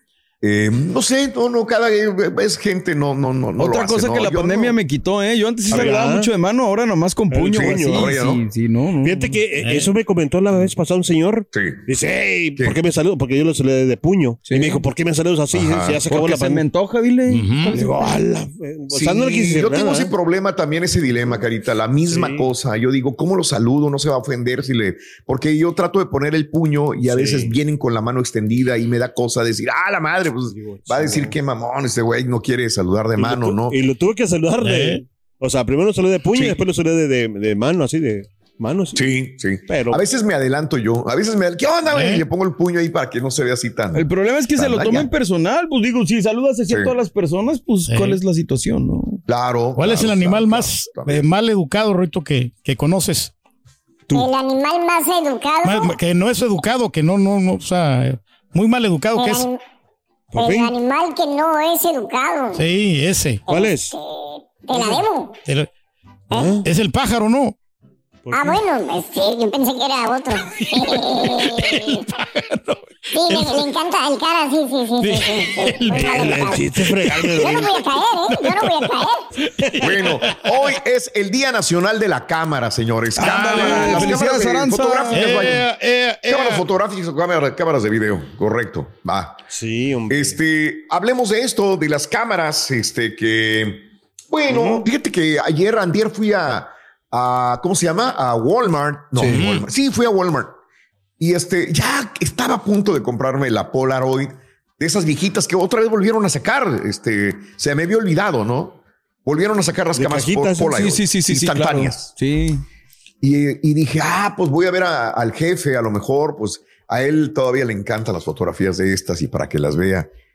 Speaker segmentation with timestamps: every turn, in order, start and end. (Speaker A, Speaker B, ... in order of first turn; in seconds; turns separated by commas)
Speaker A: 0.4-4.8, Speaker B: 3.5-9.4, Speaker C: 5.7-6.3, Speaker C: 7.3-8.2, Speaker A: 7.5-8.4, Speaker C: 9.0-16.6, Speaker D: 9.6-9.9, Speaker A: 11.5-11.8, Speaker B: 14.4-14.8, Speaker A: 15.5-16.0, Speaker B: 16.0-18.3, Speaker D: 17.3-17.8, Speaker C: 17.7-20.1, Speaker A: 18.9-33.8, Speaker C: 22.1-22.4, Speaker C: 27.1-27.5, Speaker C: 30.5-31.3, Speaker C: 33.2-39.1, Speaker D: 34.6-35.0, Speaker A: 38.9-45.1, Speaker C: 39.7-40.0, Speaker D: 41.9-42.2, Speaker B: 43.9-49.2, Speaker A: 46.7-46.9, Speaker D: 47.9-48.2, Speaker A: 49.3-51.2, Speaker D: 49.8-53.3, Speaker E: 54.1-55.9, Speaker D: 55.6-59.5, Speaker E: 59.1-59.6, Speaker C: 60.3-60.7, Speaker E: 60.4-62.6, Speaker D: 62.5-63.4, Speaker E: 63.5-65.3, Speaker C: 63.5-63.9, Speaker C: 66.3-66.6, Speaker D: 66.6-67.5, Speaker C: 68.2-68.6, Speaker E: 68.3-72.0, Speaker D: 70.9-73.7, Speaker E: 73.1-76.6, Speaker D: 75.0-77.7, Speaker C: 75.9-77.8, Speaker E: 77.1-79.2, Speaker D: 78.3-78.9, Speaker D: 79.6-80.4, Speaker A: 79.8-85.6, Speaker B: 83.1-85.5, Speaker D: 83.2-84.1, Speaker D: 85.1-86.7, Speaker A: 86.2-89.4, Speaker C: 89.5-90.4, Speaker A: 90.1-100.5, Speaker C: 94.5-94.8, Speaker B: 99.2-99.4, Speaker D: 99.2-99.6, Speaker A: 101.2-112.1, Speaker C: 110.0-110.8, Speaker B: 110.6-112.6, Speaker A: 113.2-120.1